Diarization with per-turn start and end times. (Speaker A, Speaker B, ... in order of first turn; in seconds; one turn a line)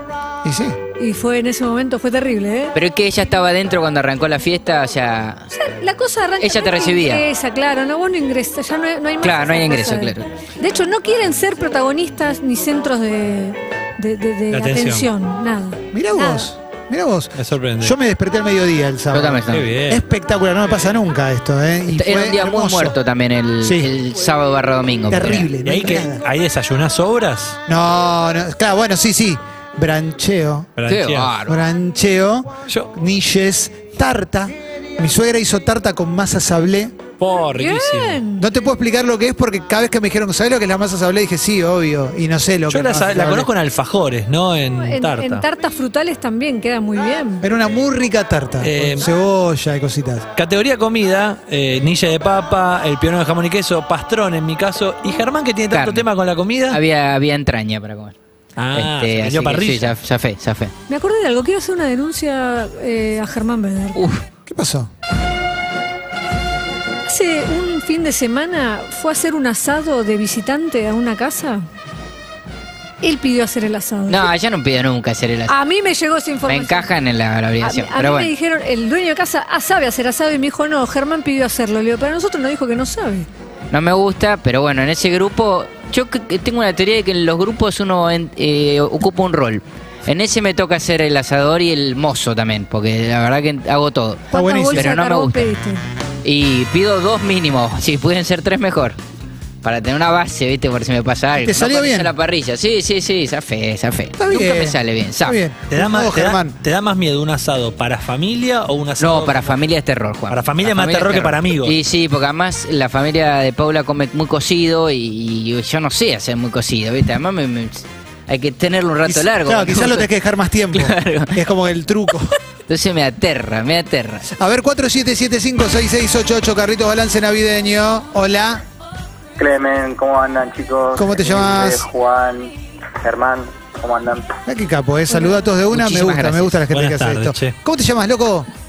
Speaker A: 0.4-0.8
Speaker B: 1.0-2.7
Speaker C: 2.7-5.5
Speaker B: 5.5-16.5
Speaker C: 6.4-7.2
Speaker C: 9.2-10.2
Speaker D: 14.5-15.1
Speaker A: 15.9-23.0
Speaker D: 17.4-17.9
Speaker C: 19.1-19.7
Speaker D: 19.5-20.0
Speaker C: 21.9-25.5
Speaker A: 23.6-23.9
Speaker A: 25.1-26.2
Speaker D: 25.6-27.6
Speaker A: 27.7-30.7
Speaker D: 30.8-31.4
Speaker C: 30.9-31.6
Speaker A: 31.5-37.0
Speaker D: 37.2-38.2
Speaker B: 37.6-38.5
Speaker A: 38.4-43.5
Speaker D: 42.7-45.4
Speaker B: 44.8-47.4
Speaker A: 47.4-50.3
Speaker D: 48.6-49.1
Speaker D: 50.4-56.8
Speaker C: 55.7-56.1
Speaker C: 56.7-58.1
Speaker D: 58.6-60.0
Speaker C: 58.8-60.7
Speaker B: 60.9-64.0
Speaker C: 63.9-64.2
Speaker A: 64.5-64.9
Speaker B: 67.0-71.7
Speaker B: 73.0-74.3
Speaker C: 74.1-75.5
Speaker B: 75.5-76.9
Speaker C: 76.5-78.3
Speaker B: 77.6-83.3
Speaker C: 83.7-95.5
Speaker A: 94.3-94.9
Speaker B: 94.3-95.8
Speaker C: 96.2-99.0
Speaker C: 99.6-105.4
Speaker A: 101.4-102.1
Speaker A: 104.2-106.5
Speaker D: 105.7-109.6
Speaker C: 109.0-120.1
Speaker D: 110.3-111.8
Speaker A: 119.0-122.3
Speaker C: 120.7-121.4
Speaker C: 122.7-124.2
Speaker A: 124.3-128.6
Speaker E: 129.4-134.3
Speaker A: 130.9-131.9
Speaker A: 134.5-138.5
Speaker C: 135.7-136.6
Speaker D: 136.7-137.5